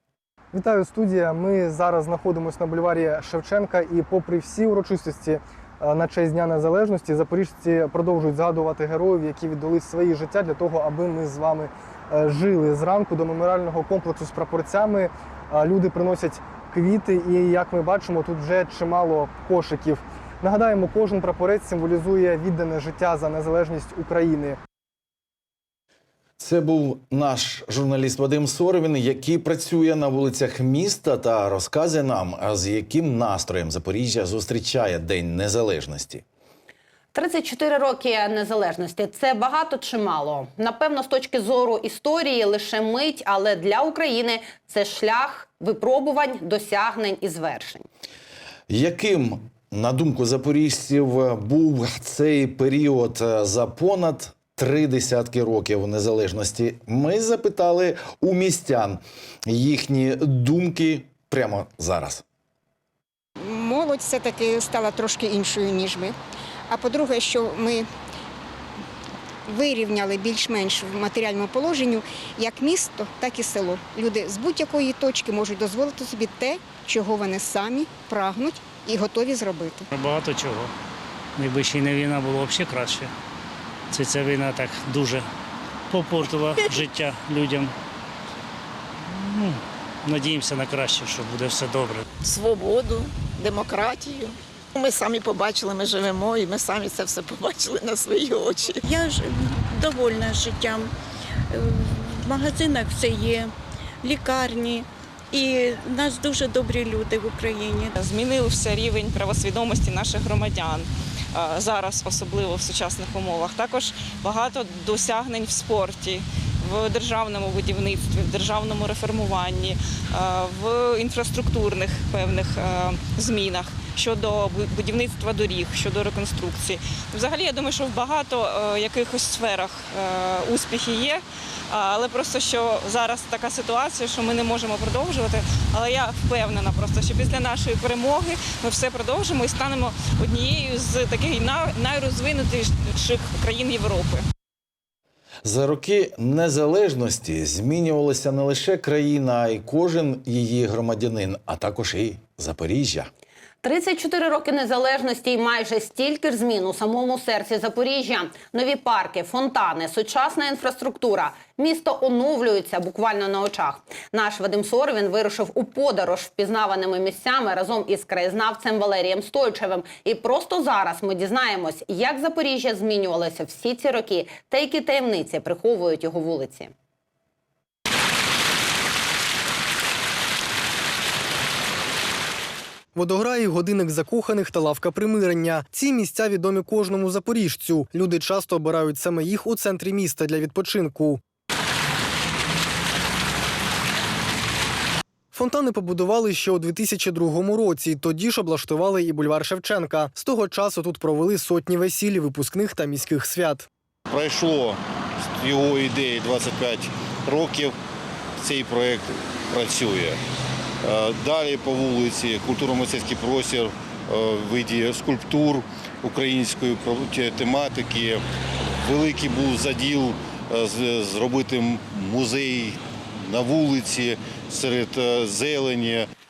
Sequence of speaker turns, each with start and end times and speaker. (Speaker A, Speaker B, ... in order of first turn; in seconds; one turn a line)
Speaker A: 0.5-24.6
Speaker B: 26.4-36.2
Speaker C: 37.1-47.8
Speaker B: 48.7-62.2
Speaker D: 63.4-66.1
Speaker D: 66.7-67.9
Speaker D: 69.5-79.9
Speaker E: 79.9-80.7
Speaker E: 81.4-83.1
Speaker E: 83.9-85.3
Speaker E: 85.9-87.7
Speaker E: 89.0-92.0
Speaker F: 92.2-98.8
Speaker G: 98.8-100.9
Speaker G: 101.5-103.5
Speaker G: 104.0-107.9
Speaker H: 108.0-144.2
Speaker B: 145.4-153.1
Speaker C: 153.6-176.7
Speaker A: 182.9-191.2
Speaker A: 195.3-203.7
Speaker I: 204.1-204.8
Speaker I: 205.4-207.7
Speaker I: 208.4-210.2
Speaker I: 210.8-218.2
Speaker I: 218.8-226.1